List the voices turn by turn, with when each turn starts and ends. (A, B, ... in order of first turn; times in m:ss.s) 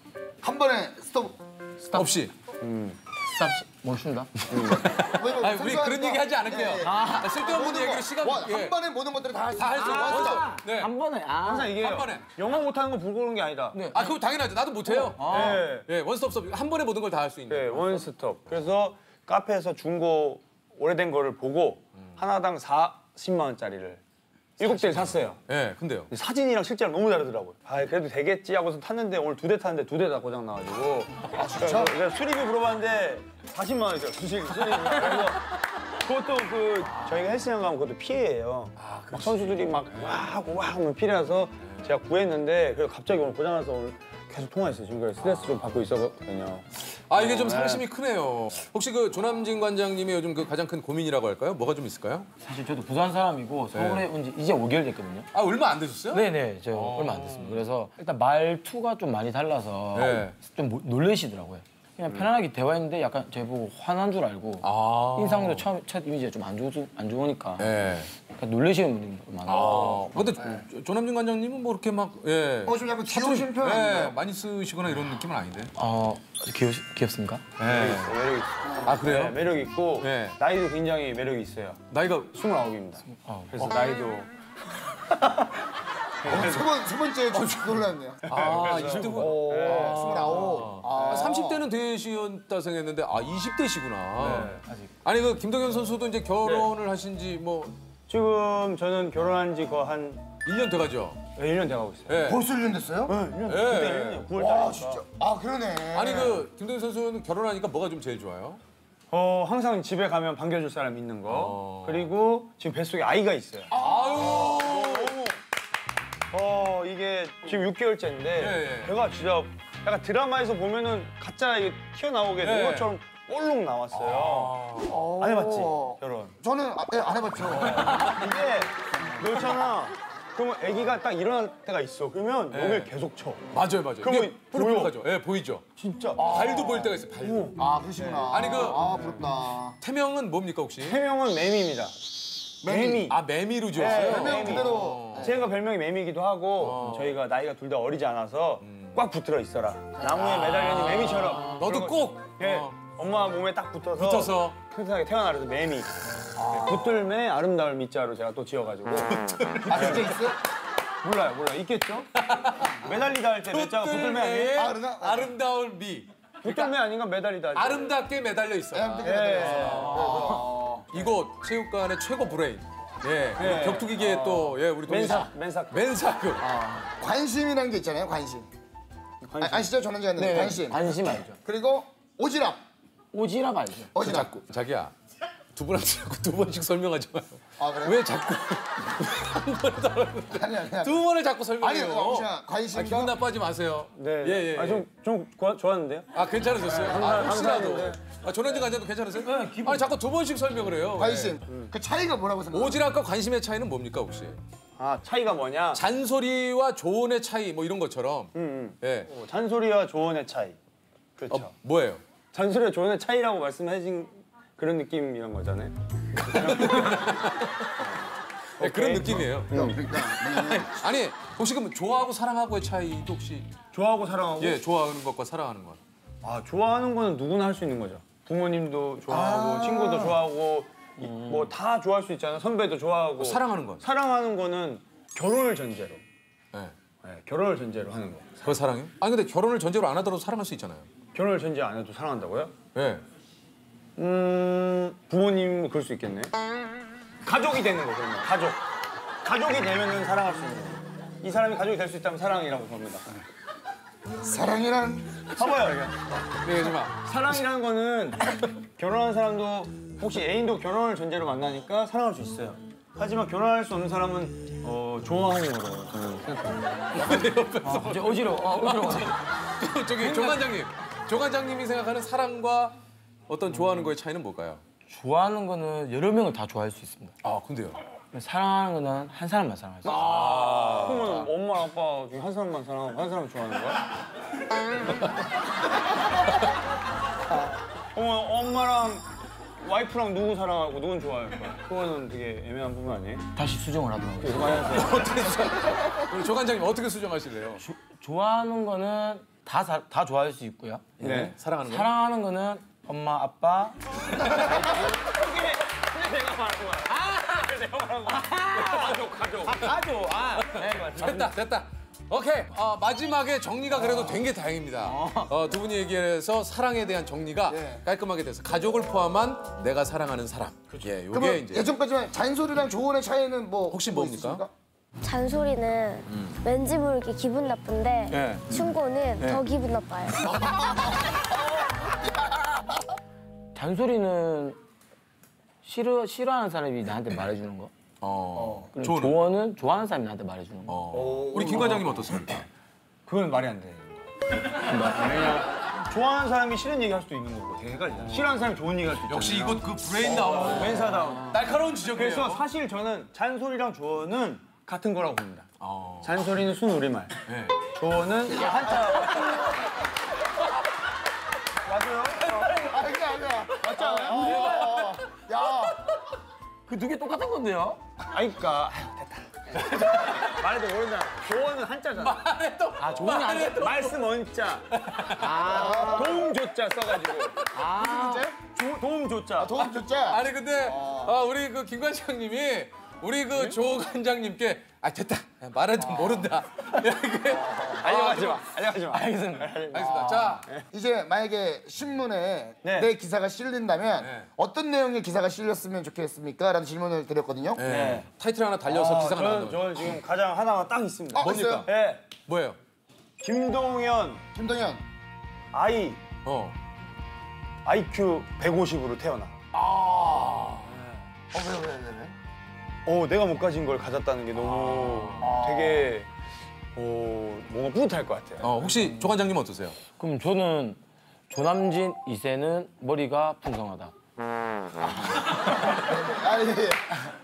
0:00.4-0:02.0 A
0:01.9-0:02.3 B
0:02.6-0:03.0 C
0:03.3-0:04.5 D
0:04.5-0:04.9 C
0:04.6-0:08.8 B
0:05.0-0:10.6 A
0:06.8-0:07.5 D
0:09.6-0:10.9 B
0:09.7-0:11.9 D
0:11.4-0:13.8 C
0:11.8-0:12.3 B
0:13.7-0:14.2 D
0:13.9-0:18.1 B
0:14.8-0:15.7 D
0:15.2-0:15.9 C
0:17.5-0:24.0 C
0:24.6-0:25.4 C
0:24.6-0:26.1 B
0:26.1-0:47.8 C
0:31.3-0:31.9 A
0:34.8-0:35.3 B
0:37.0-0:37.3 B
0:38.8-0:40.2 B
0:47.1-0:52.3 B
0:52.4-0:55.3 D
0:53.7-0:54.1 B
0:55.3-0:57.7 B
0:56.1-1:10.2 D
0:59.9-1:00.4 B
1:04.6-1:05.7 B
1:07.6-1:08.1 B
1:09.4-1:15.7 B
1:12.6-1:14.2 A
1:15.8-1:17.4 D
1:17.6-1:18.2 B
1:17.6-1:24.3 C
1:18.6-1:19.0 A
1:18.8-1:19.4 B
1:20.0-1:20.4 B
1:21.9-1:22.3 B
1:23.1-1:23.8 D
1:25.1-1:25.5 C
1:26.2-1:26.7 C
1:26.3-1:28.3 A
1:27.3-1:37.8 B
1:28.3-1:31.3 C
1:29.1-1:31.7 A
1:34.2-1:34.6 C
1:34.4-1:34.9 D
1:36.4-1:36.7 C
1:38.1-1:40.3 C
1:40.4-1:41.3 B
1:41.4-1:42.2 C
1:42.1-1:42.4 B
1:42.2-1:43.2 A
1:43.1-1:45.0 C
1:43.4-1:44.3 B
1:44.4-1:46.5 A
1:45.9-1:48.6 B
1:49.1-1:55.4 C
1:51.3-1:52.1 B
1:53.7-1:55.2 B
1:56.3-2:06.4 C
1:58.4-1:59.0 B
2:02.4-2:03.0 B
2:03.9-2:05.1 B
2:04.8-2:08.0 A
2:07.6-2:08.4 B
2:07.6-2:13.5 C
2:12.5-2:12.9 B
2:13.5-2:15.7 B
2:14.0-2:15.0 C
2:15.8-2:16.3 C
2:16.2-2:17.0 A
2:16.2-2:17.5 B
2:17.1-2:19.2 C
2:17.6-2:19.8 A
2:18.3-2:18.9 B
2:19.8-2:21.0 B
2:20.8-2:22.0 C
2:22.6-2:23.1 A
2:22.6-2:23.2 C
2:23.1-2:25.5 B
2:23.7-2:40.1 C
2:23.9-2:25.5 A
2:26.6-2:27.2 B
2:28.6-2:29.0 B
2:30.2-2:32.8 B
2:34.0-2:34.6 B
2:39.1-2:40.3 B
2:39.7-2:40.4 A
2:41.0-2:44.7 C
2:42.2-2:42.9 B
2:43.5-2:46.8 B
2:44.5-2:45.4 A
2:46.4-2:48.0 C
2:47.5-2:56.5 B
2:48.7-2:51.0 A
2:49.0-2:50.2 C
2:53.4-2:55.9 C
2:56.5-2:58.5 A
2:59.2-2:59.7 C
2:59.4-3:02.6 A
3:00.2-3:01.4 D
3:03.1-3:04.0 D
3:03.9-3:04.4 A
3:04.0-3:04.9 B
3:05.5-3:14.9 B
3:07.6-3:08.1 A
3:10.3-3:11.0 A
3:11.6-3:13.2 A
3:14.0-3:18.6 C
3:16.1-3:21.4 B
3:19.2-3:19.9 D
3:20.9-3:22.8 A
3:22.5-3:24.4 B
3:24.8-3:25.8 C
3:25.7-3:29.1 B
3:28.4-3:30.6 C
3:31.2-3:31.5 C
3:31.3-3:32.0 B
3:32.3-3:37.9 C
3:36.2-3:37.7 B
3:38.6-3:39.9 C
3:38.6-3:43.6 B
3:39.5-3:40.8 A
3:43.7-3:44.6 C
3:44.4-3:45.8 B
3:46.2-3:56.0 C
3:49.3-3:49.6 B
3:49.5-3:49.8 A
3:51.0-3:51.5 D
3:53.2-3:53.8 B
3:57.0-3:58.5 C
3:58.4-4:00.9 B
4:01.1-4:02.6 C
4:02.7-4:03.0 B
4:04.0-4:06.3 C
4:07.2-4:08.6 C
4:09.2-4:13.2 C
4:14.2-4:15.3 A
4:15.3-4:27.2 C
4:16.4-4:17.0 B
4:26.9-4:32.8 B
4:27.6-4:29.4 D
4:30.0-4:30.4 D
4:33.3-4:34.6 B
4:34.9-4:37.1 D
4:37.2-4:37.8 B
4:38.1-4:40.3 D
4:39.8-4:43.9 C
4:39.9-4:41.3 B
4:47.9-4:49.1 C
4:49.6-4:53.2 C
4:53.4-4:54.9 D
4:54.2-4:55.2 C
4:54.7-4:57.6 B
4:57.6-5:04.8 D
5:01.0-5:01.9 B
5:01.0-5:01.3 C
5:04.1-5:09.8 C
5:07.0-5:07.3 D
5:08.1-5:11.3 D
5:10.4-5:11.3 C
5:10.5-5:21.7 B
5:14.9-5:15.3 D
5:17.5-5:17.9 A
5:20.7-5:21.0 C
5:21.1-5:24.5 A
5:23.7-5:24.4 B
5:25.0-5:30.2 E
5:26.1-5:26.4 B
5:28.1-5:28.6 D
5:28.1-5:28.4 B
5:30.2-5:31.2 A
5:31.8-5:32.5 A
5:33.6-5:34.6 D
5:35.6-5:37.7 D
5:38.0-5:39.2 B
5:38.6-5:41.2 D
5:40.7-5:42.5 B
5:40.9-5:41.9 C
5:43.1-5:44.1 C
5:44.6-5:45.2 D
5:44.9-5:55.5 C
5:49.1-5:52.4 B
5:55.6-5:56.3 B
5:56.0-5:57.2 C
5:57.3-5:57.7 B
5:57.7-5:59.6 C
5:58.7-5:59.5 D
6:01.6-6:02.7 C
6:02.5-6:05.8 A
6:03.6-6:04.5 C
6:04.1-6:04.7 D
6:04.3-6:05.0 B
6:06.7-6:07.8 D
6:08.1-6:12.3 C
6:09.6-6:10.4 B
6:11.9-6:14.0 B
6:12.8-6:13.9 D
6:12.9-6:14.7 C
6:14.7-6:15.5 B
6:15.1-6:16.3 D
6:15.4-6:17.5 C
6:15.5-6:16.0 A
6:17.5-6:18.3 D
6:17.6-6:18.4 A
6:18.4-6:19.6 C
6:19.4-6:21.2 A
6:19.6-6:28.4 B
6:26.0-6:26.2 A
6:27.3-6:27.9 A
6:27.8-6:30.6 C
6:28.8-6:30.3 D
6:29.7-6:30.5 B
6:30.7-6:37.6 A
6:32.6-6:32.9 C
6:34.0-6:34.3 B
6:37.6-6:40.0 B
6:37.6-6:38.1 C
6:38.7-6:42.1 C
6:41.1-6:41.7 A
6:41.2-6:42.6 B
6:43.2-6:44.2 C
6:44.3-6:44.8 A
6:45.5-6:46.0 C
6:46.2-6:46.6 B
6:47.6-6:49.4 C
6:49.5-6:50.7 B
6:49.9-6:50.4 A
6:51.3-6:52.1 A
6:52.9-6:56.1 C
6:54.4-6:55.4 B
6:55.2-6:56.0 A
6:56.8-6:58.6 C
6:58.4-6:59.9 B
6:59.9-7:03.9 D
7:04.8-7:07.1 A